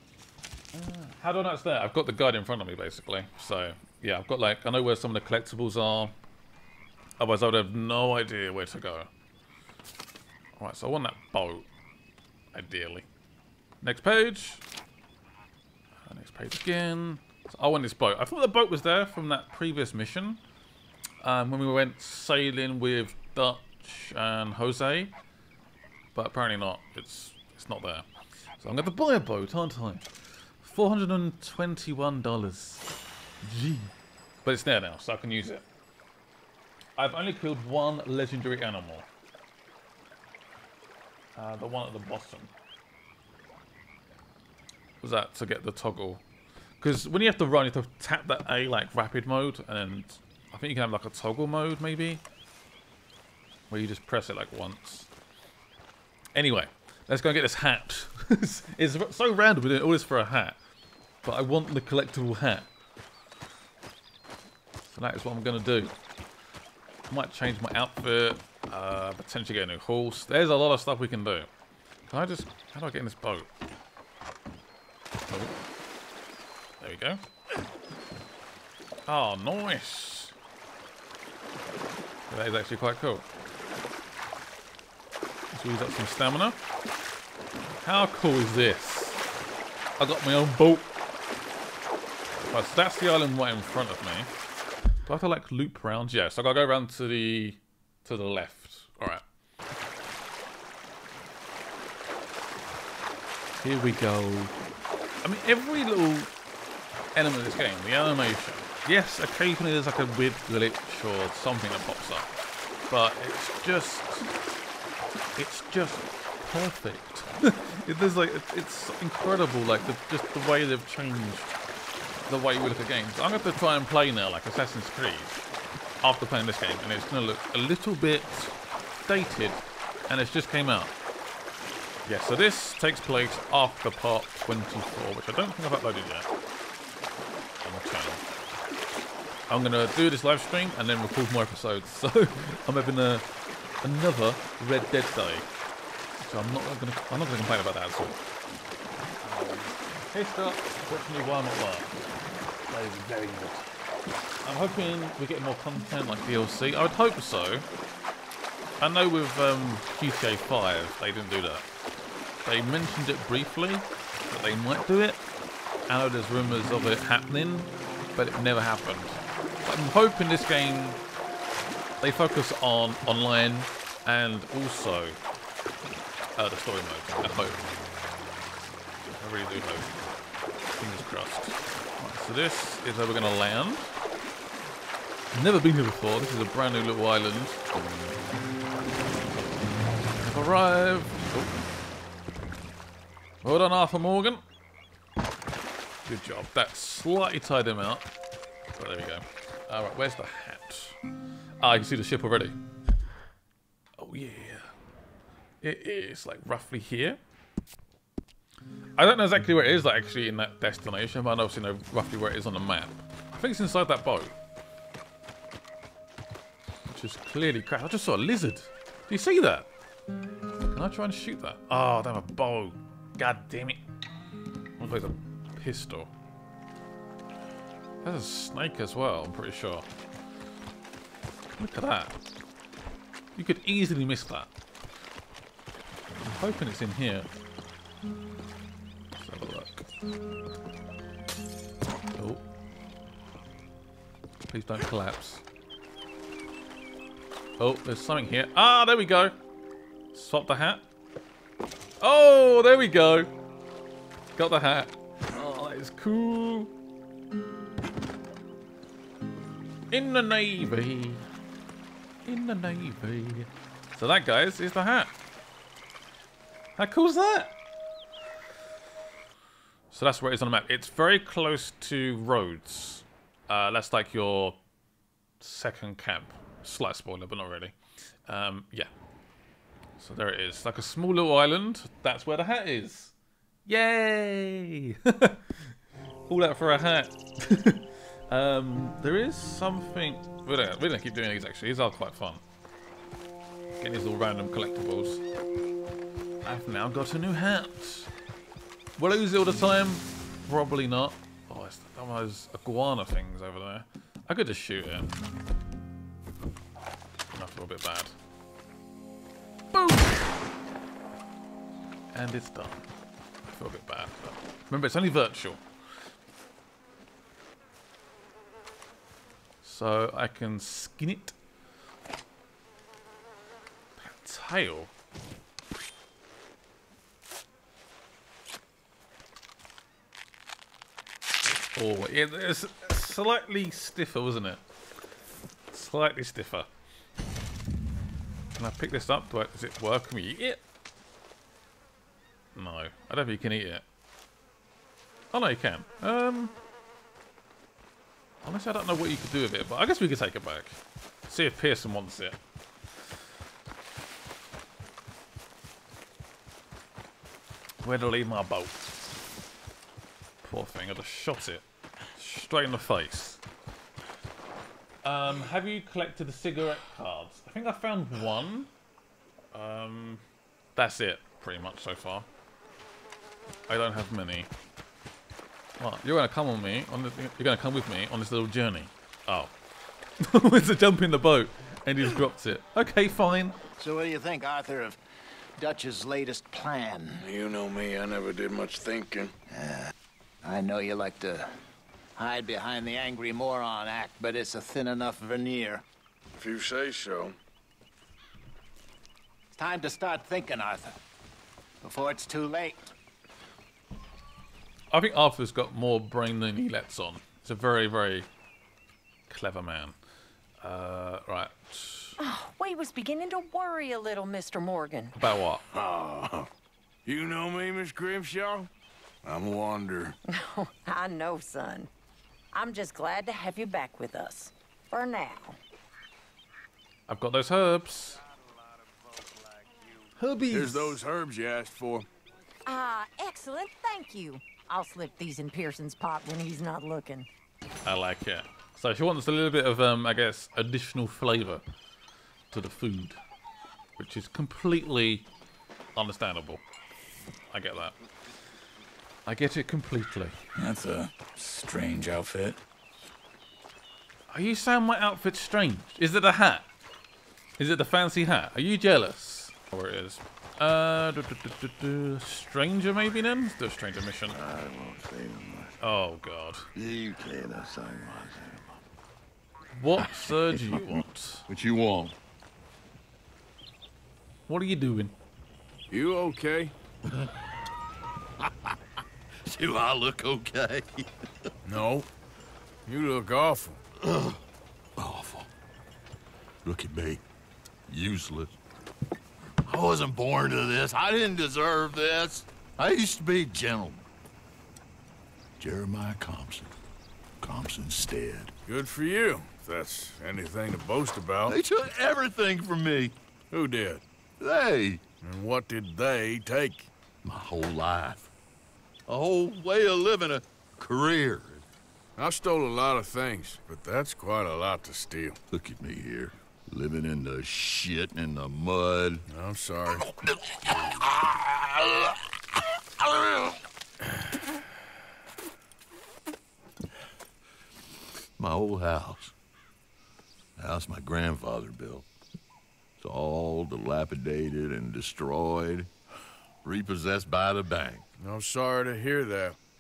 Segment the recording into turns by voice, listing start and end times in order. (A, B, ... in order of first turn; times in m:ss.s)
0:00.7-0:06.2 A
0:07.2-0:09.1 A
0:10.6-0:11.7 A
0:12.5-0:13.1 A
0:13.8-0:14.6 A
0:16.1-0:20.4 A
0:21.2-0:25.1 A
0:26.2-0:28.1 A
0:28.6-0:30.0 A
0:30.6-0:32.9 A
0:33.4-0:33.9 A
0:34.4-0:35.6 A
0:37.0-0:39.1 A
0:41.4-0:42.5 A
0:45.0-0:46.2 A
0:46.8-0:52.2 A
0:53.7-0:55.1 A
0:56.3-1:00.6 A
1:01.2-1:02.7 A
1:04.9-1:05.9 A
1:07.1-1:11.5 A
1:12.1-1:13.5 A
1:15.3-1:15.6 A
1:16.8-1:17.2 A
1:19.1-1:20.3 A
1:22.3-1:23.3 A
1:25.5-1:26.6 A
1:27.8-1:29.2 A
1:30.0-1:30.9 A
1:32.4-1:34.3 A
1:35.1-1:39.2 A
1:43.6-1:44.5 A
1:45.2-1:46.3 A
1:47.2-1:52.3 A
1:52.9-1:54.3 A
1:55.4-2:01.5 A
2:02.3-2:05.4 A
2:06.0-2:08.6 A
2:09.1-2:10.9 A
2:12.1-2:16.3 A
2:17.6-2:18.2 A
2:19.5-2:23.2 A
2:23.8-2:25.5 A
2:26.2-2:28.2 A
2:29.2-2:32.0 A
2:32.7-2:33.7 A
2:34.4-2:37.7 A
2:38.8-2:41.6 A
2:42.4-2:45.2 A
2:45.9-2:51.0 A
2:52.0-2:55.2 A
2:56.4-2:57.7 A
2:59.2-2:59.9 A
3:00.8-3:03.9 A
3:05.3-3:07.6 A
3:10.2-3:11.7 A
3:13.4-3:14.4 A
3:16.0-3:18.1 A
3:18.8-3:21.0 A
3:21.6-3:22.6 A
3:24.0-3:24.7 A
3:25.6-3:27.2 A
3:29.0-3:34.3 A
3:36.9-3:39.7 A
3:40.7-3:43.8 A
3:44.8-3:46.1 A
3:48.0-3:49.9 A
3:51.5-3:52.2 A
3:53.4-3:54.5 A
3:56.2-3:57.3 A
3:59.2-3:59.9 A
4:02.2-4:02.4 A
4:04.5-4:05.4 A
4:07.6-4:09.4 A
4:10.1-4:10.8 A
4:12.0-4:13.3 A
4:14.4-4:16.7 A
4:19.9-4:21.2 A
4:22.2-4:25.2 A
4:26.8-4:27.6 A
4:29.9-4:34.6 A
4:35.4-4:37.8 A
4:38.3-4:38.9 A
4:40.0-4:43.1 A
4:43.7-4:45.4 A
4:46.3-4:52.4 A
4:53.8-4:55.2 A
4:56.4-4:58.1 A
4:59.0-5:05.1 A
5:07.3-5:08.2 A
5:09.7-5:10.2 A
5:12.1-5:12.9 A
5:13.5-5:15.6 A
5:19.6-5:21.4 A
5:24.0-5:24.9 A
5:31.7-5:34.6 A
5:35.7-5:36.7 A
5:38.6-5:40.6 A
5:42.6-5:43.8 A
5:45.3-5:46.5 A
5:48.4-5:52.4 A
5:57.8-5:58.8 A
6:00.4-6:01.6 A
6:02.2-6:03.4 A
6:05.0-6:08.7 A
6:09.5-6:10.2 A
6:10.8-6:12.3 A
6:13.7-6:14.5 A
6:15.8-6:19.5 A
6:20.2-6:23.6 A
6:23.8-6:25.0 B
6:25.6-6:27.2 B
6:27.2-6:29.3 C
6:29.5-6:29.9 B
6:30.4-6:31.6 B
6:32.2-6:35.8 B
6:36.4-6:37.3 C
6:39.5-6:41.0 B
6:41.8-6:42.9 B
6:44.9-6:48.3 A
6:49.3-6:50.0 A
6:50.6-6:52.2 A
6:52.2-6:55.2 D
6:55.2-6:55.6 A
6:55.7-6:56.5 C
6:57.0-6:58.7 C
6:59.2-7:00.2 C
7:00.3-7:01.9 D
7:02.5-7:05.6 D
7:07.1-7:08.2 A
7:10.2-7:10.7 A
7:10.5-7:12.1 C
7:12.7-7:17.3 D
7:17.8-7:21.6 A
7:22.5-7:23.2 A
7:24.0-7:25.3 A
7:26.0-7:26.6 A
7:27.5-7:27.9 A
7:29.3-7:30.4 A
7:30.6-7:32.6 E
7:34.3-7:36.7 A
7:37.6-7:44.4 A
7:44.3-7:45.8 F
7:45.8-7:46.7 A
7:46.8-7:48.8 F
7:49.8-7:51.4 A
7:50.6-7:52.2 F
7:54.5-7:55.2 A
7:55.9-7:56.7 C
7:57.1-7:57.4 F
7:58.4-7:58.8 F
7:59.4-8:01.3 F
8:01.7-8:02.1 C
8:02.9-8:03.8 C
8:04.0-8:04.4 F
8:05.0-8:05.5 F
8:06.6-8:07.2 F
8:07.9-8:08.6 F
8:09.7-8:14.0 F
8:15.6-8:16.7 F
8:17.4-8:18.5 F
8:18.7-8:21.6 C
8:21.5-8:23.2 F
8:23.5-8:24.0 C
8:24.4-8:25.0 F
8:25.2-8:26.9 C
8:27.2-8:28.3 F
8:29.1-8:31.6 F
8:32.2-8:35.4 C
8:35.5-8:39.2 F
8:39.3-8:40.1 C
8:39.9-8:42.3 F
8:43.0-8:43.6 F
8:48.4-8:49.3 F
8:50.6-8:52.1 F
8:53.0-8:55.9 F
8:56.6-8:58.0 F
8:58.2-8:59.6 C